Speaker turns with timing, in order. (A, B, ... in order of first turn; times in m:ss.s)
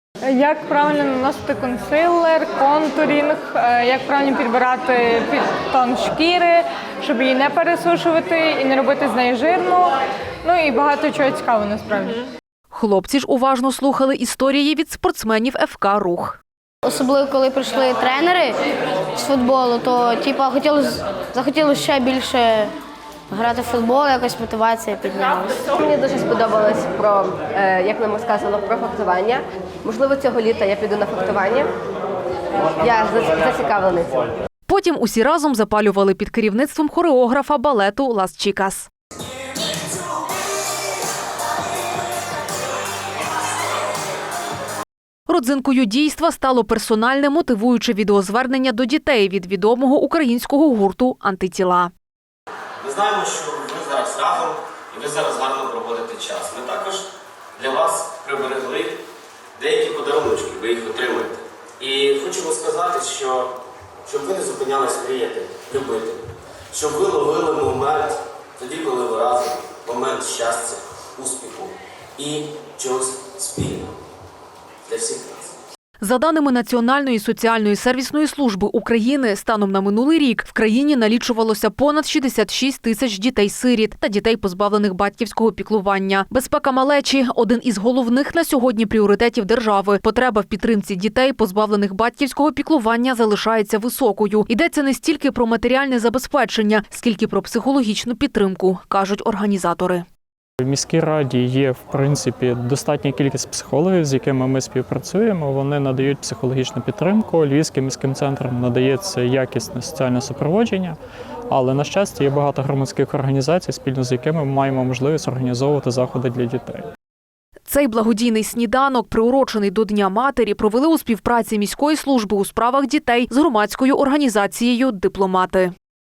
0:00.2-0:12.3 A
0:12.7-0:16.4 B
0:16.8-0:18.6 C
0:19.2-0:22.7 C
0:23.3-0:25.7 C
0:25.7-0:31.7 D
0:32.8-0:34.3 D
0:34.7-0:38.9 B
0:45.3-0:51.9 B
0:52.8-0:59.0 E
0:59.6-1:13.9 E
1:14.9-1:15.6 E
1:16.0-1:40.0 B
1:40.6-1:51.0 F
1:51.5-1:56.9 F
1:57.6-2:05.7 B